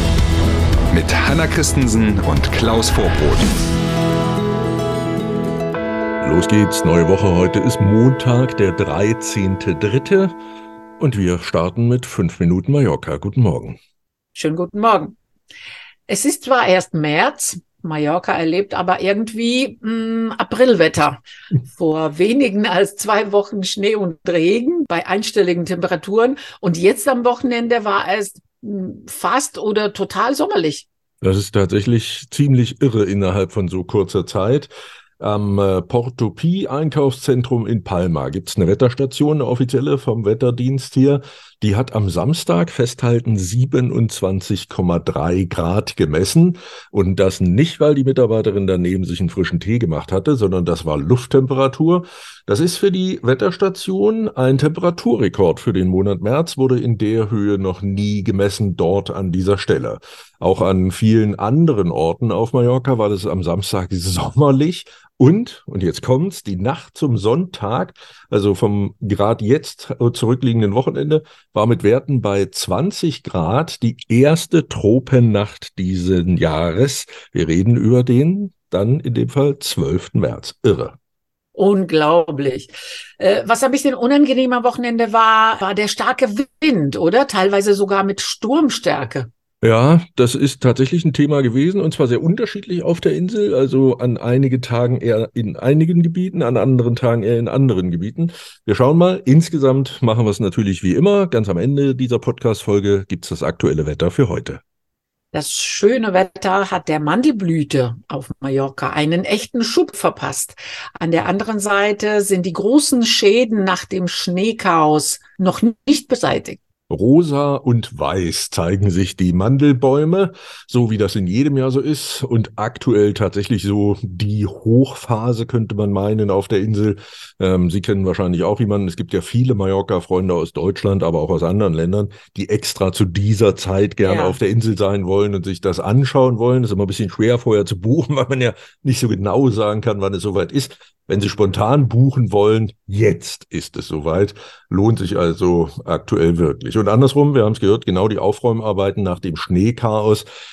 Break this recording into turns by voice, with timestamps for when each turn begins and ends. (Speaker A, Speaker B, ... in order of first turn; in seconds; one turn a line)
Speaker A: 0.9-3.5
Speaker B: 6.2-10.3
Speaker B: 11.0-13.8
Speaker C: 14.3-15.2
Speaker C: 16.1-30.9
Speaker B: 31.2-81.0
Speaker C: 81.5-89.3
Speaker B: 89.6-104.6
Speaker C: 105.3-116.6
Speaker B: 116.9-150.2
Speaker C: 134.0-134.4